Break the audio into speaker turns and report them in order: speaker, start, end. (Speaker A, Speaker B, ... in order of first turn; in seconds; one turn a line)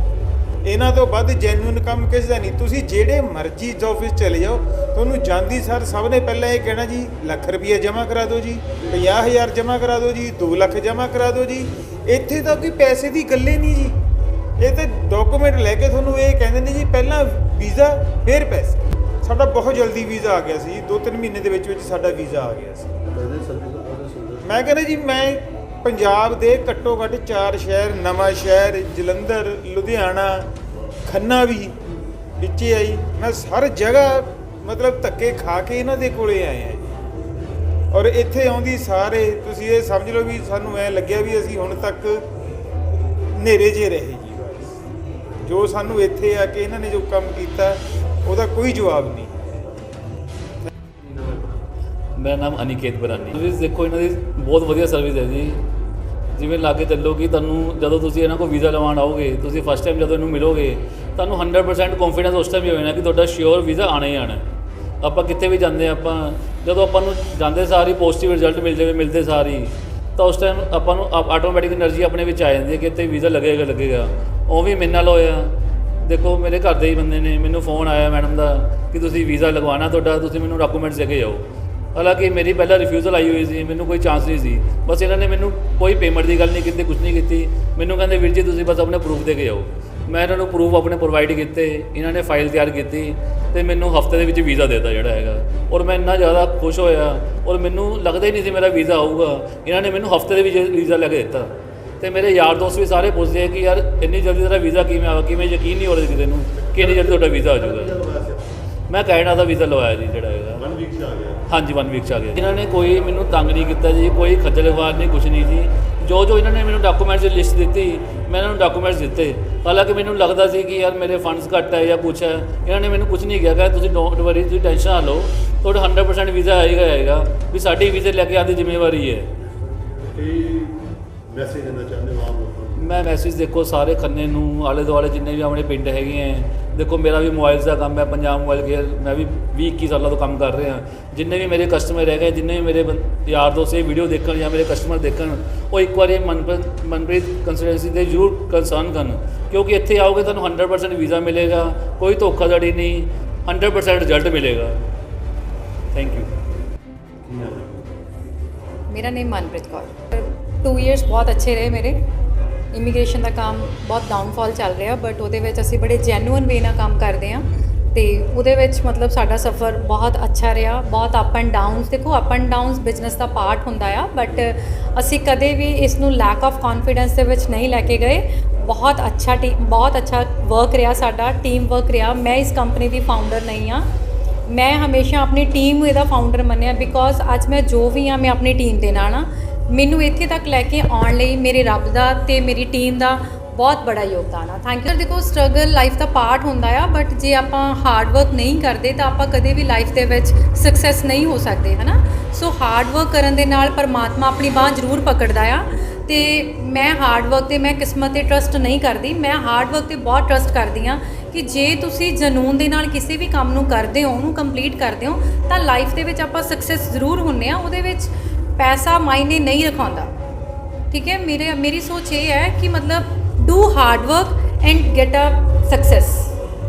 Speaker A: 0.6-13.9
Speaker A: 14.6-23.0
Speaker B: 23.1-24.6
Speaker A: 24.4-30.5
Speaker A: 31.1-31.8
Speaker A: 32.4-36.9
Speaker A: 37.9-42.3
Speaker A: 43.4-44.8
Speaker A: 45.4-49.7
Speaker B: 51.0-51.5
Speaker C: 52.1-55.6
Speaker C: 56.4-64.4
Speaker C: 65.0-81.4
Speaker C: 81.9-108.0
Speaker B: 106.7-108.5
Speaker C: 108.9-110.6
Speaker B: 110.5-111.4
Speaker C: 111.5-129.3
Speaker B: 129.7-132.9
Speaker C: 132.8-154.7
Speaker C: 155.9-156.3
Speaker B: 157.2-157.9
Speaker D: 158.9-162.0
Speaker D: 162.7-183.8
Speaker D: 184.5-220.1
Speaker D: 220.9-226.3